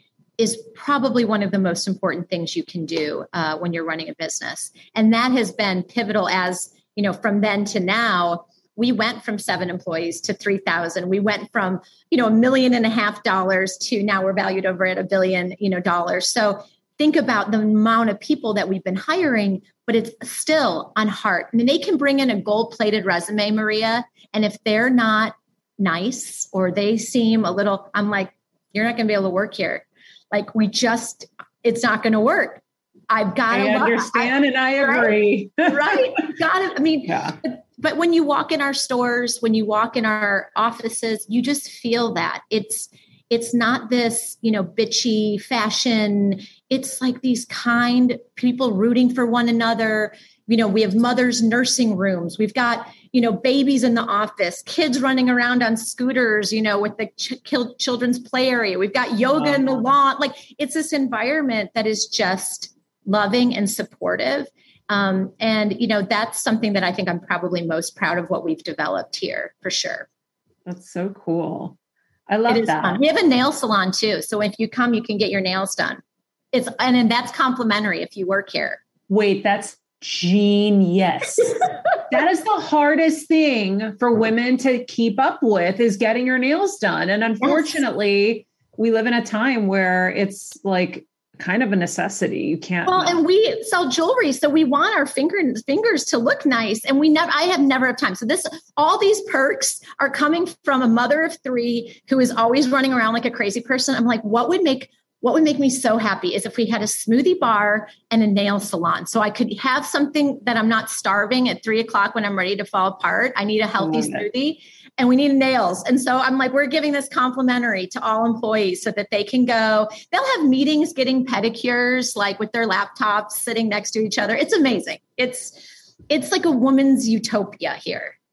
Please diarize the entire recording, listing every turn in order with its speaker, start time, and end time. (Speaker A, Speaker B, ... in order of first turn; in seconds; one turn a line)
Speaker A: 0.4-70.1
Speaker B: 33.5-36.0
Speaker B: 37.1-37.4
Speaker B: 70.7-71.8
Speaker B: 72.3-73.0
Speaker A: 72.5-76.0
Speaker A: 76.5-78.8
Speaker B: 79.1-93.2
Speaker A: 87.4-87.8
Speaker A: 92.9-128.1
Speaker B: 113.8-114.3